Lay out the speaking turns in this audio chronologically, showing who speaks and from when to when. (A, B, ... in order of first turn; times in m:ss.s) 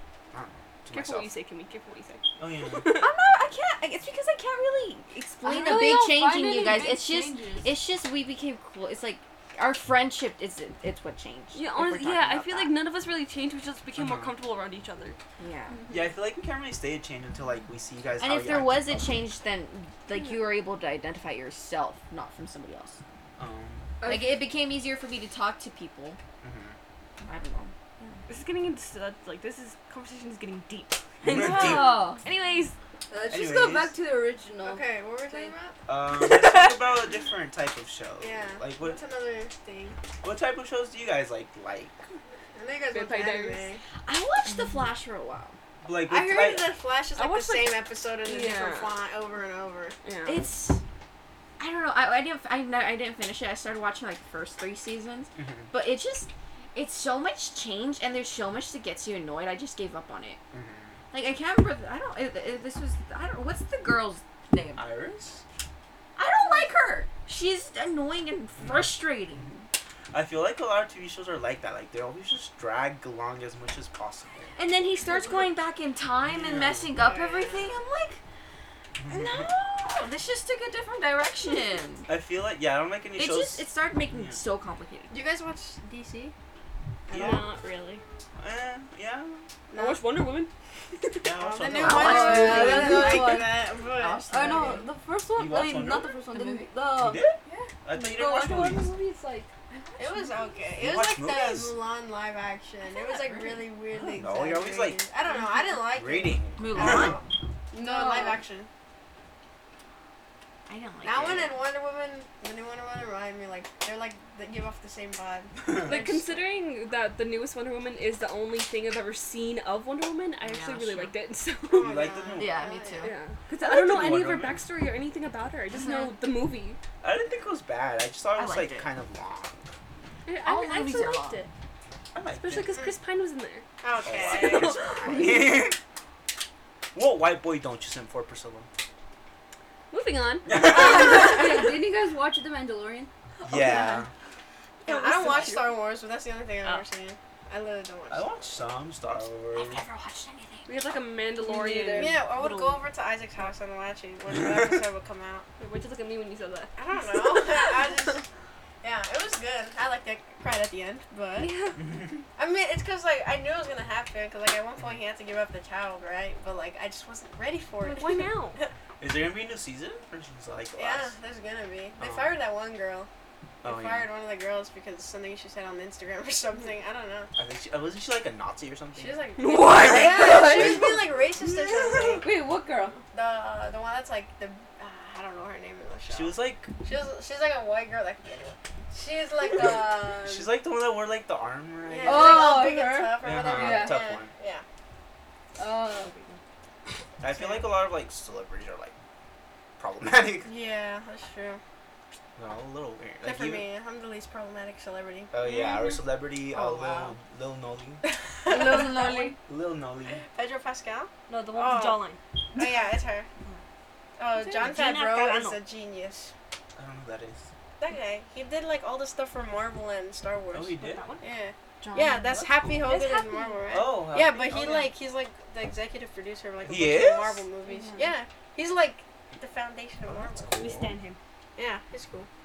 0:00.3-0:01.3 A
0:00.9-0:03.1 B
0:02.4-0:03.0 A
0:03.0-0:12.8 C
0:05.4-0:07.7 D
0:11.5-0:15.2 B
0:14.0-0:14.4 A
0:15.4-0:15.8 C
0:15.7-0:16.1 D
0:15.9-0:19.2 A
0:18.2-0:23.0 C
0:20.1-0:20.5 B
0:23.4-0:23.9 A
0:24.0-0:24.4 D
0:24.0-0:26.2 C
0:26.4-0:26.8 A
0:27.2-0:28.1 C
0:28.3-0:32.8 B
0:31.2-0:32.1 A
0:31.3-0:32.2 D
0:33.1-0:35.5 D
0:33.3-0:34.0 A
0:34.6-0:35.8 E
0:35.9-0:39.0 A
0:38.2-0:40.0 E
0:40.2-0:42.0 A
0:42.6-0:43.8 E
0:42.9-0:43.7 B
0:44.0-0:45.6 C
0:45.8-0:46.8 A
0:46.1-0:50.0 E
0:47.2-0:49.0 B
0:50.0-0:50.4 B
0:50.3-0:50.8 C
0:51.6-1:00.4 C
0:55.4-0:55.7 A
1:00.5-1:01.0 A
1:01.1-1:04.8 C
1:04.8-1:05.4 A
1:06.2-1:09.7 C
1:08.6-1:09.0 A
1:10.1-1:14.6 A
1:14.6-1:18.2 C
1:16.2-1:17.0 A
1:16.9-1:17.8 E
1:19.0-1:19.5 A
1:19.1-1:22.1 C
1:22.1-1:24.4 A
1:23.2-1:25.2 C
1:25.1-1:26.3 E
1:27.1-1:27.5 E
1:27.1-1:27.5 A
1:27.1-1:28.0 B
1:28.4-1:29.4 A
1:29.7-1:30.0 E
1:29.7-1:31.3 B
1:31.2-1:33.2 A
1:31.4-1:34.9 E
1:31.8-1:34.9 C
1:31.9-1:33.6 D
1:34.3-1:40.3 D
1:35.4-1:36.2 A
1:36.3-1:36.7 C
1:36.9-1:39.0 A
1:40.0-1:48.7 E
1:40.8-1:41.8 A
1:42.8-1:43.7 C
1:43.9-1:45.0 A
1:45.9-1:47.2 A
1:46.6-1:47.2 C
1:47.8-1:48.4 D
1:50.7-1:51.6 C
1:51.0-1:56.2 E
1:51.2-1:51.5 A
1:55.6-1:56.0 A
1:55.8-2:02.1 B
2:00.4-2:01.2 C
2:01.7-2:03.1 E
2:01.7-2:02.7 A
2:02.4-2:03.2 C
2:03.0-2:06.8 B
2:03.5-2:04.6 A
2:05.8-2:06.1 C
2:07.0-2:09.7 A
2:08.4-2:08.9 C
2:10.3-2:11.5 B
2:10.4-2:11.4 C
2:12.1-2:12.8 A
2:12.3-2:15.3 B
2:13.8-2:14.8 E
2:14.0-2:15.8 A
2:15.0-2:15.4 C
2:16.9-2:18.7 A
2:19.9-2:21.4 B
2:20.5-2:21.5 A
2:20.6-2:24.0 D
2:23.4-2:24.1 A
2:24.8-2:25.7 B
2:24.9-2:28.7 E
2:28.1-2:29.8 A
2:29.5-2:30.9 C
2:30.7-2:32.9 B
2:31.4-2:32.2 D
2:32.0-2:35.5 E
2:34.3-2:34.8 A
2:35.6-2:37.9 B
2:36.8-2:38.2 E
2:38.8-2:41.5 E
2:41.4-2:41.8 B
2:41.8-2:42.2 A
2:42.4-2:48.7 E
2:47.8-2:48.6 B
2:49.0-2:51.2 A
2:50.8-2:53.1 E
2:52.0-2:52.4 A
2:53.6-2:54.1 A
2:53.6-2:57.3 E
2:57.4-3:02.2 A
2:59.0-3:02.3 E
2:59.4-3:00.2 B
2:59.4-3:01.2 D
3:01.7-3:03.0 D
3:03.1-3:10.5 E
3:06.1-3:06.7 A
3:09.5-3:12.6 A
3:11.9-3:14.6 E
3:12.0-3:14.0 D
3:13.2-3:14.3 A
3:15.6-3:16.2 D
3:17.2-3:18.9 A
3:17.2-3:17.7 E
3:19.8-3:20.5 A
3:20.4-3:21.6 E
3:22.4-3:23.7 A
3:23.2-3:25.3 E
3:25.3-3:28.0 A
3:25.4-3:26.0 B
3:26.5-3:27.2 C
3:28.0-3:29.4 E
3:28.5-3:29.4 C
3:29.5-3:30.2 A
3:30.2-3:32.0 E
3:31.3-3:32.2 B
3:32.5-3:33.3 E
3:34.2-3:36.3 E
3:34.3-3:35.6 B
3:36.8-3:37.5 A
3:37.8-3:50.7 E
3:40.5-3:41.1 A
3:40.8-3:41.3 B
3:41.8-3:42.8 C
3:42.9-3:43.6 B
3:42.9-3:43.2 D
3:43.7-3:44.9 A
3:46.6-3:47.4 A
3:47.7-3:48.1 B
3:50.0-3:51.0 A
3:50.6-3:51.2 B
3:51.6-3:52.3 E